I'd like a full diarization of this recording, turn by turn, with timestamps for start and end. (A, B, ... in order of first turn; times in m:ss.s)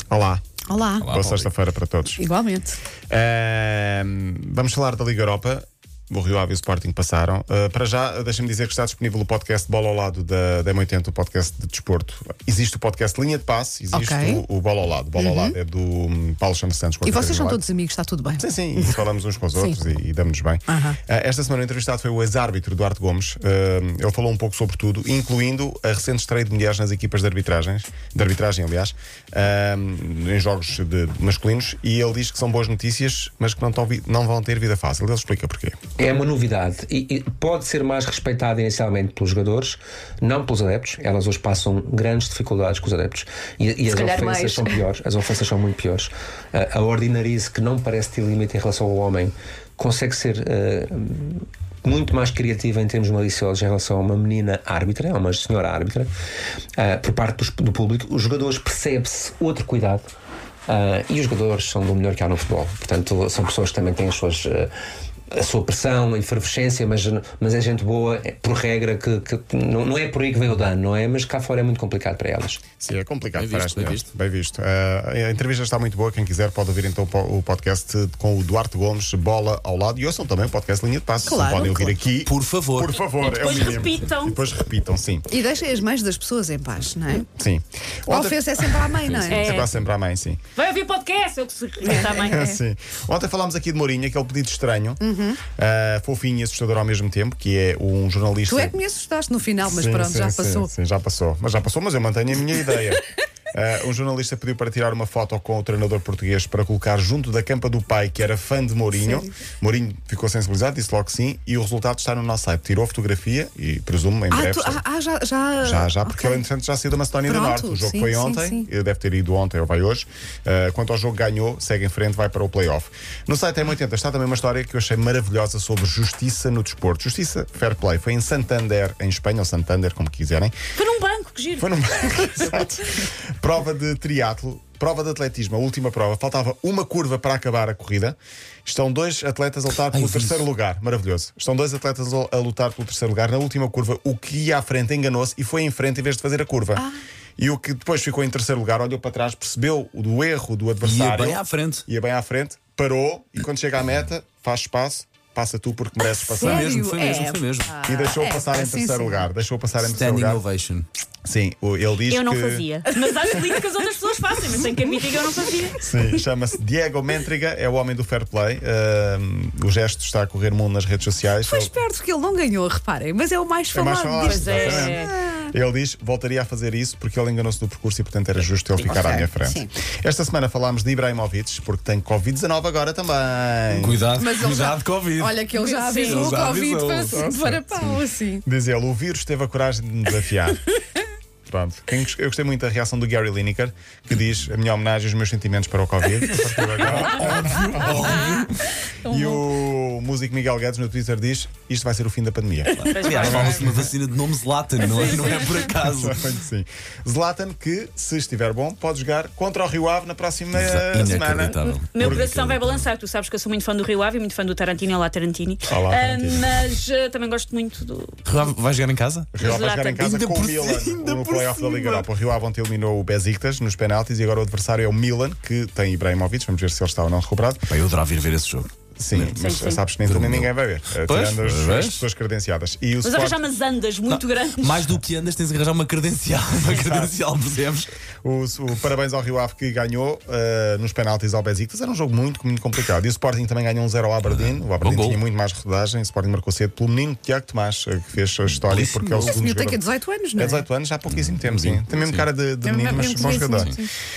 0:00.1-0:00.4 A
0:00.7-0:01.2 B
0:01.0-0:01.5 C
0:01.1-0:02.2 A
0:02.1-0:02.8 B
0:03.1-0:17.6 A
0:13.9-0:14.4 B
0:15.2-0:15.6 B
0:17.0-0:19.0 B
0:18.4-0:35.8 A
0:19.6-0:19.9 B
0:20.7-0:21.0 B
0:36.0-0:56.1 D
0:43.9-0:44.8 B
0:56.7-1:00.1 D
1:00.7-1:04.7 D
1:05.3-1:12.6 D
1:12.8-1:25.3 A
1:13.3-1:14.1 C
1:21.2-1:21.9 B
1:22.2-1:23.0 C
1:23.2-1:24.4 E
1:25.3-1:27.3 B
1:27.3-1:30.4 A
1:28.1-1:29.5 B
1:29.3-1:29.7 E
1:30.6-1:32.5 E
1:31.9-1:32.5 B
1:31.9-1:35.0 A
1:35.0-1:35.4 B
1:35.6-1:38.8 A
1:38.5-1:40.7 B
1:39.6-1:54.8 A
1:49.0-1:49.3 B
1:54.3-1:56.4 B
1:55.6-2:10.5 A
1:57.2-1:58.7 B
2:10.8-2:11.7 E
2:11.6-2:26.8 A
2:19.9-2:20.4 C
2:27.4-2:36.7 A
2:30.8-2:31.8 C
2:36.2-2:39.3 B
2:36.4-2:37.7 C
2:37.8-2:40.4 A
2:39.8-2:40.9 C
2:41.2-2:42.7 A
2:42.1-2:45.8 E
2:45.8-2:51.7 A
2:51.4-2:55.5 B
2:53.7-3:04.0 A
2:54.2-2:55.1 E
2:58.8-2:59.7 B
3:03.7-3:07.2 C
3:04.2-3:08.4 B
3:05.6-3:06.3 E
3:07.1-3:10.6 A
3:11.5-3:18.3 A
3:16.8-3:18.5 C
3:19.0-3:23.7 A
3:19.1-3:19.4 B
3:22.8-3:26.2 C
3:22.9-3:23.6 E
3:25.8-3:31.6 A
3:30.5-3:32.9 C
3:31.6-3:38.2 E
3:35.6-3:36.5 A
3:38.2-3:39.3 C
3:39.3-3:47.6 A
3:39.4-3:40.1 E
3:40.0-3:42.1 C
3:47.7-3:49.4 C
3:49.0-3:53.4 A
3:49.4-3:49.8 E
3:50.0-3:52.0 C
3:53.0-3:55.0 E
3:54.1-3:57.9 C
3:56.7-3:57.1 A
3:58.2-4:09.8 A
4:04.2-4:05.2 C
4:08.5-4:09.4 C
4:09.2-4:10.6 B
4:10.4-4:13.8 A
4:11.1-4:12.3 C
4:12.6-4:13.9 B
4:12.9-4:13.8 C